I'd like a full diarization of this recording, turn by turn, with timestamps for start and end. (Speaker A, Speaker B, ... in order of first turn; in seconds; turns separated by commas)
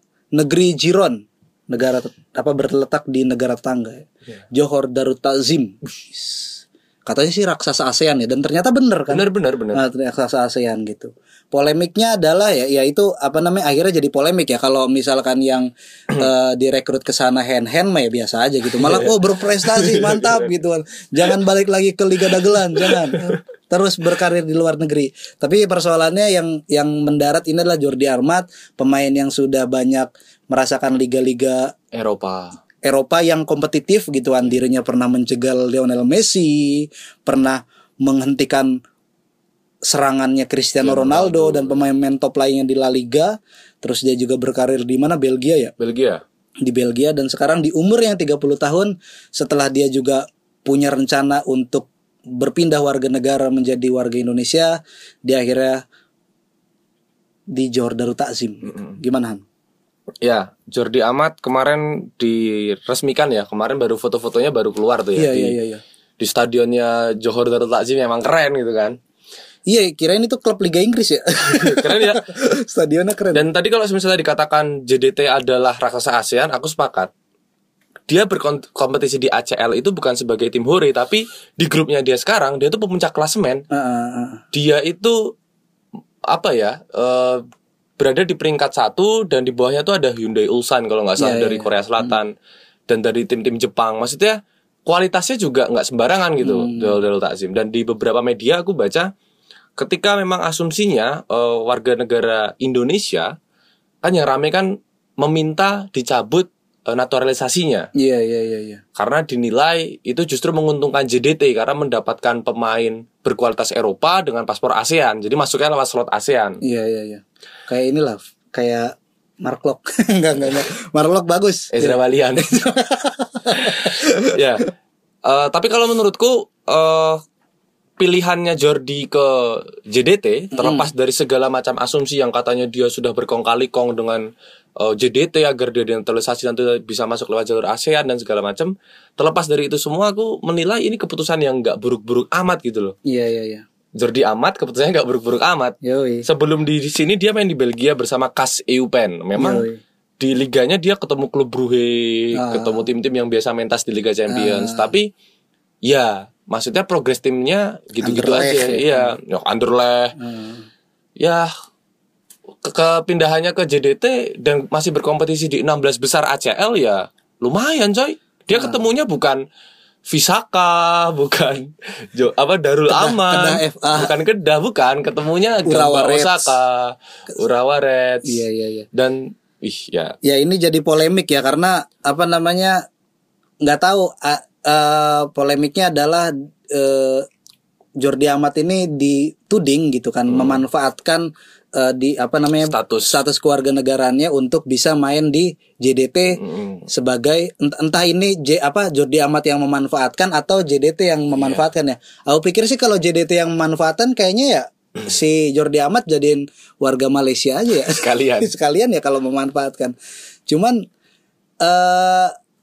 Speaker A: 0.3-31.7, Speaker B: 9.1-9.8, Speaker B: 18.8-20.4, Speaker B: 22.3-23.4, Speaker B: 31.9-32.5, Speaker A: 32.8-38.8, Speaker A: 39.8-45.7, Speaker B: 40.8-41.9, Speaker B: 45.8-46.2, Speaker A: 46.6-55.8, Speaker A: 57.5-59.4, Speaker B: 58.6-59.0, Speaker B: 60.2-65.5, Speaker A: 65.2-65.8, Speaker B: 66.2-69.0, Speaker A: 69.7-73.4, Speaker B: 71.5-72.2, Speaker B: 73.3-77.1, Speaker B: 78.1-83.6, Speaker A: 83.7-84.4, Speaker B: 84.5-85.3, Speaker B: 86.3-87.4, Speaker B: 88.0-92.3, Speaker A: 91.2-92.2, Speaker B: 92.9-99.1, Speaker A: 96.4-97.0, Speaker B: 99.8-103.3, Speaker B: 104.0-107.9, Speaker A: 108.0-108.8, Speaker B: 109.0-116.6, Speaker A: 116.6-124.4, Speaker B: 121.7-122.6, Speaker B: 123.5-124.7, Speaker B: 125.2-127.2, Speaker B: 128.0-134.2, Speaker A: 130.5-130.9, Speaker B: 134.8-142.9, Speaker A: 143.0-143.6, Speaker B: 144.0-149.6, Speaker A: 145.8-146.2, Speaker A: 149.4-149.8, Speaker B: 150.2-155.1, Speaker A: 152.3-152.9, Speaker A: 154.3-154.9, Speaker B: 155.8-160.2, Speaker A: 158.0-159.1, Speaker A: 160.2-160.7, Speaker B: 161.2-161.5, Speaker B: 162.6-169.4, Speaker A: 168.5-168.8, Speaker B: 170.1-180.2, Speaker A: 172.9-174.1, Speaker A: 175.7-176.6, Speaker A: 178.2-178.9, Speaker A: 180.2-182.8, Speaker A: 183.6-187.2, Speaker A: 188.0-209.9, Speaker B: 190.3-190.6, Speaker B: 192.6-193.2, Speaker B: 196.4-196.8, Speaker B: 201.3-201.7, Speaker B: 207.9-208.5, Speaker A: 210.5-210.8, Speaker A: 211.6-212.3